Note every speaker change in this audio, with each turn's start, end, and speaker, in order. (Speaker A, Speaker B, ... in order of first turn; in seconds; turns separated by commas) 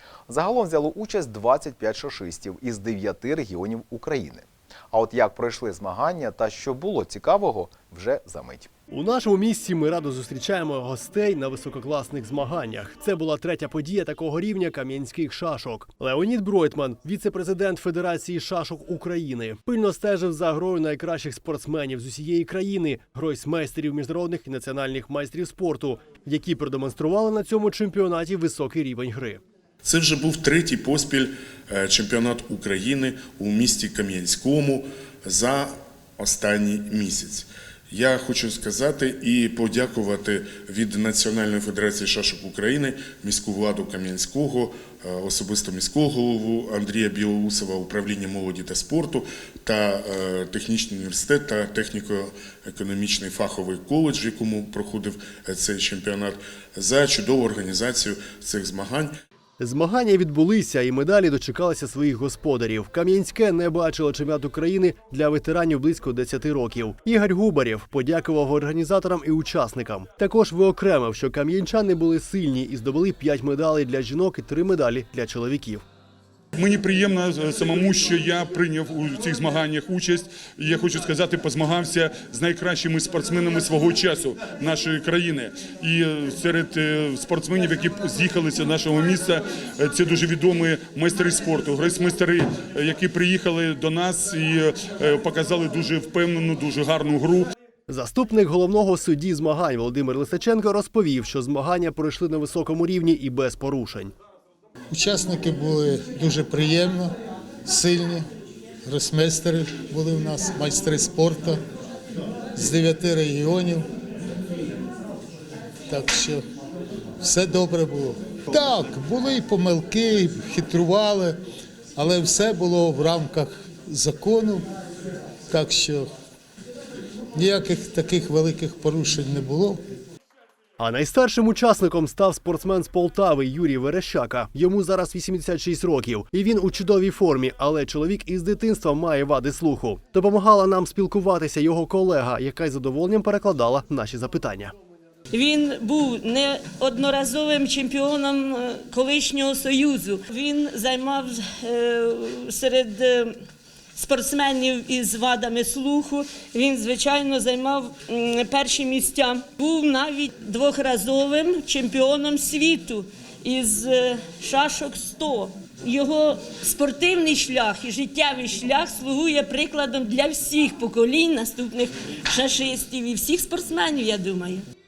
Speaker A: 0.3-8.7, Speaker B: 8.9-29.4, Speaker C: 29.8-59.1, Speaker B: 59.6-75.8, Speaker D: 76.6-97.5, Speaker B: 97.9-104.1, Speaker E: 104.9-107.1, Speaker E: 107.7-108.2, Speaker E: 108.9-111.6, Speaker E: 112.5-113.8, Speaker E: 115.9-116.4, Speaker E: 117.2-121.3, Speaker E: 122.0-124.6, Speaker E: 125.5-126.1, Speaker E: 127.3-129.8, Speaker B: 130.8-144.7, Speaker F: 145.3-153.3, Speaker F: 153.9-174.6